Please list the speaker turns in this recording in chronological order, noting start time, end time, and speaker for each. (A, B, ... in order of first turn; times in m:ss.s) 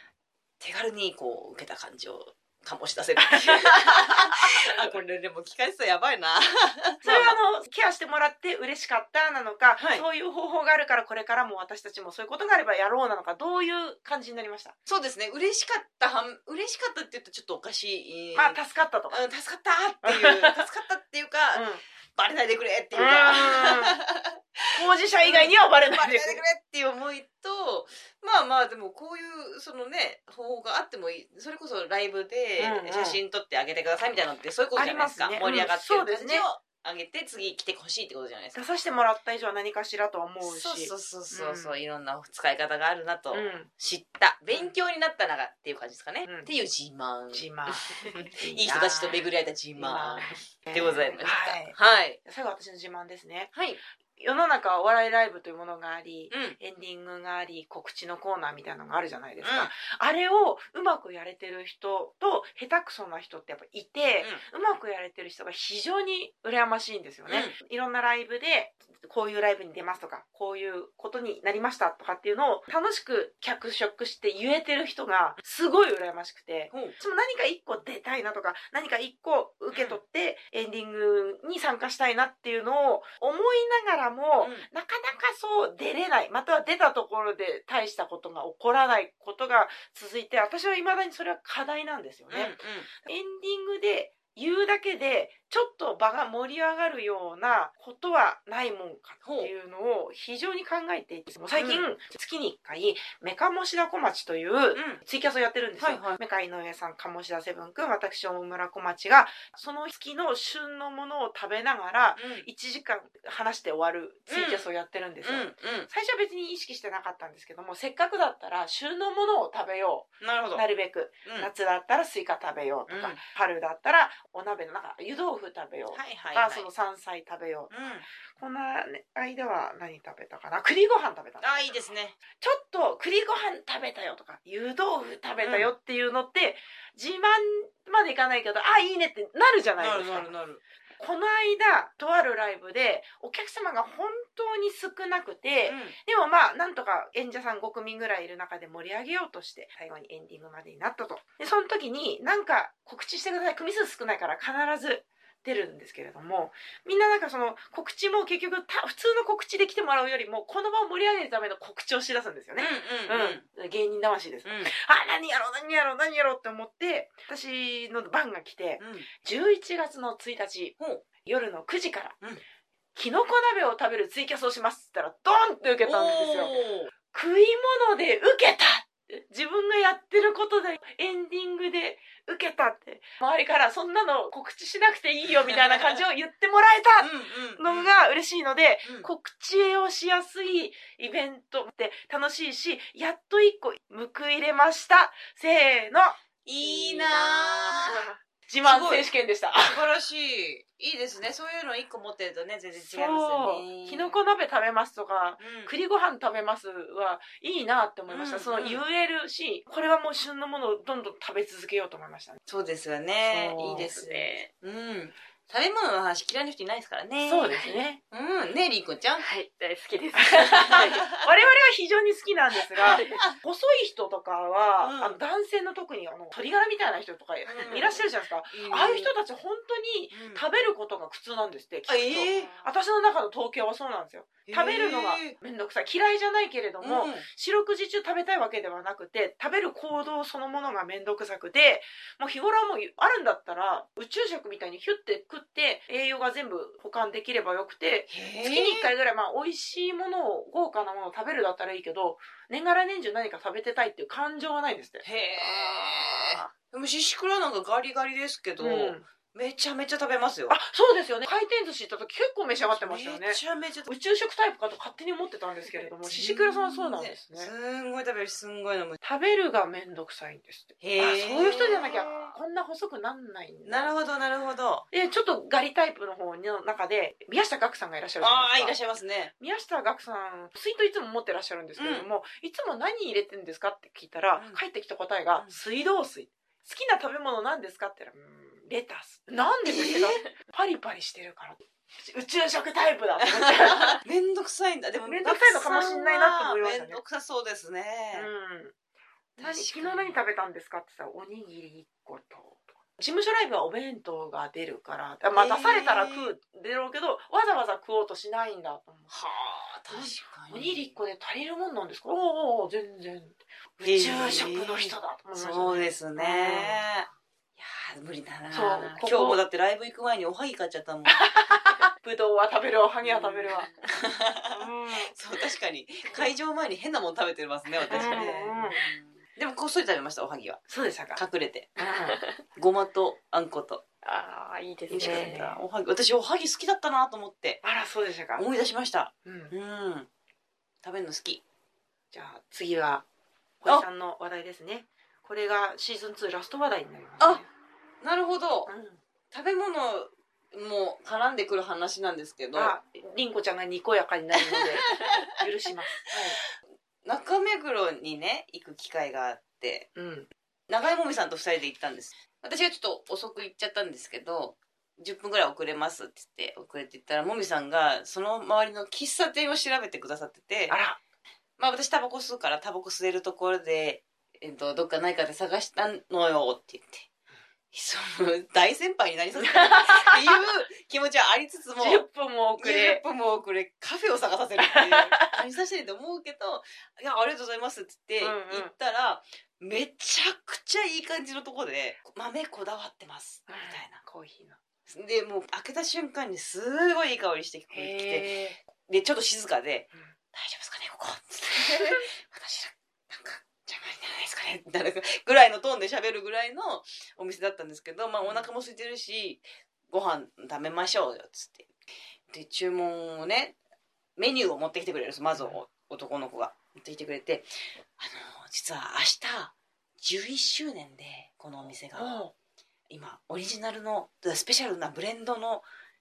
0:00.6-0:07.4 A
0:03.2-0:04.7 B
0:07.0-0:14.8 B
0:09.8-0:10.0 A
0:14.9-0:18.6 A
0:18.3-0:19.2 B
0:19.1-0:38.6 A
0:20.0-0:20.6 B
0:21.5-0:21.8 B
0:22.9-0:24.0 B
0:24.7-0:26.4 B
0:32.6-0:33.2 B
0:34.8-0:36.4 B
0:38.5-0:41.8 B
0:40.4-0:52.2 A
0:43.3-0:43.7 B
0:47.3-0:49.2 B
0:49.8-0:53.5 B
0:53.5-0:53.8 A
0:54.2-2:07.8 B
0:56.3-0:56.6 A
0:59.4-0:59.7 A
1:07.3-1:07.5 A
1:16.7-1:17.0 A
1:19.7-1:20.0 A
1:24.4-1:24.7 A
1:32.3-1:32.9 A
1:39.2-1:39.5 A
1:41.5-1:41.9 A
1:44.7-1:45.0 A
1:45.8-1:46.2 A
1:52.2-1:52.5 A
1:54.3-1:54.6 A
1:55.2-1:55.9 A
2:00.2-2:00.6 A
2:01.2-2:01.5 A
2:02.9-2:03.2 A
2:05.9-2:06.7 A
2:07.7-2:08.0 A
2:08.4-2:11.7 B
2:11.4-2:12.2 A
2:12.4-2:20.3 B
2:15.4-2:15.7 A
2:19.8-2:20.6 A
2:21.0-2:52.2 B
2:25.6-2:26.0 A
2:42.6-2:43.4 A
2:44.4-2:44.7 A
2:48.8-2:49.1 A
2:50.8-2:51.0 A
2:52.9-2:56.5 B
2:55.8-2:56.9 A
2:57.1-3:16.2 B
3:05.3-3:06.0 A
3:07.0-3:07.9 A
3:16.4-3:18.0 A
3:16.8-3:17.9 B
3:17.3-3:18.1 C
3:18.5-3:19.8 B
3:18.6-3:24.2 A
3:22.8-3:32.4 B
3:25.4-3:25.7 A
3:28.1-3:28.8 A
3:32.5-3:39.2 A
3:33.2-3:33.9 B
3:33.6-3:34.5 C
3:37.2-3:38.0 B
3:37.5-3:37.8 C
3:39.2-3:41.0 C
3:40.2-4:15.0 B
3:40.7-3:41.2 A
3:42.8-3:43.4 A
3:42.8-3:43.2 C
3:44.8-3:45.2 A
3:47.4-3:49.1 A
3:50.1-3:50.4 A
3:51.9-3:52.6 A
3:52.3-3:52.7 C
3:54.5-3:55.4 A
3:56.8-3:57.2 A
4:08.1-4:08.9 A
4:15.0-4:20.6 A
4:16.0-4:16.4 C
4:18.6-4:19.1 B
4:20.5-4:27.5 B
4:22.8-4:23.9 A
4:26.0-4:29.0 A
4:29.0-4:33.9 B
4:30.8-4:32.3 A
4:33.6-4:34.8 A
4:34.9-4:38.8 B
4:38.2-4:39.3 A
4:39.4-4:54.0 B
4:41.8-4:42.1 A
4:44.4-4:44.6 A
4:49.6-4:50.2 A
4:53.2-4:58.3 A
4:55.0-4:57.0 B
4:58.1-4:58.7 B
4:59.4-5:00.2 A
4:59.4-5:09.1 B
5:05.3-5:06.3 A
5:09.1-5:10.9 A
5:09.9-5:16.8 B
5:13.8-5:21.2 A
5:18.5-5:19.4 B
5:21.1-5:23.7 B
5:23.0-5:30.6 A
5:24.5-5:25.1 B
5:27.9-5:28.8 B
5:27.9-5:28.2 C
5:30.7-5:31.2 B
5:31.1-5:31.8 A
5:31.8-5:32.2 B
5:31.9-5:32.4 C
5:32.5-5:33.8 A
5:34.0-5:35.4 C
5:34.9-5:37.6 A
5:35.0-5:35.5 B
5:37.6-5:38.4 B
5:38.4-5:40.1 A
5:39.2-5:39.5 B
5:40.8-5:41.4 A
5:42.1-5:43.0 B
5:43.6-5:47.5 B
5:48.0-5:48.7 A
5:48.7-5:49.0 B
5:49.3-5:52.8 A
5:52.5-5:56.4 B
5:54.3-5:55.3 A
5:57.0-5:59.9 A
6:00.0-6:00.3 B
6:00.7-6:10.8 A
6:10.7-6:11.0 B
6:11.6-6:17.1 A
6:17.7-6:22.0 A
6:19.4-6:20.4 B
6:21.8-6:23.0 B
6:22.6-6:34.0 A
6:24.6-6:25.4 B
6:28.2-6:28.7 B
6:33.5-6:34.6 B
6:34.9-6:51.7 A
6:37.7-6:38.6 B
6:41.6-6:42.0 B
6:48.2-6:48.5 B
6:52.3-6:53.6 A
6:54.2-7:02.1 A
7:02.0-7:02.3 B
7:02.9-7:05.6 A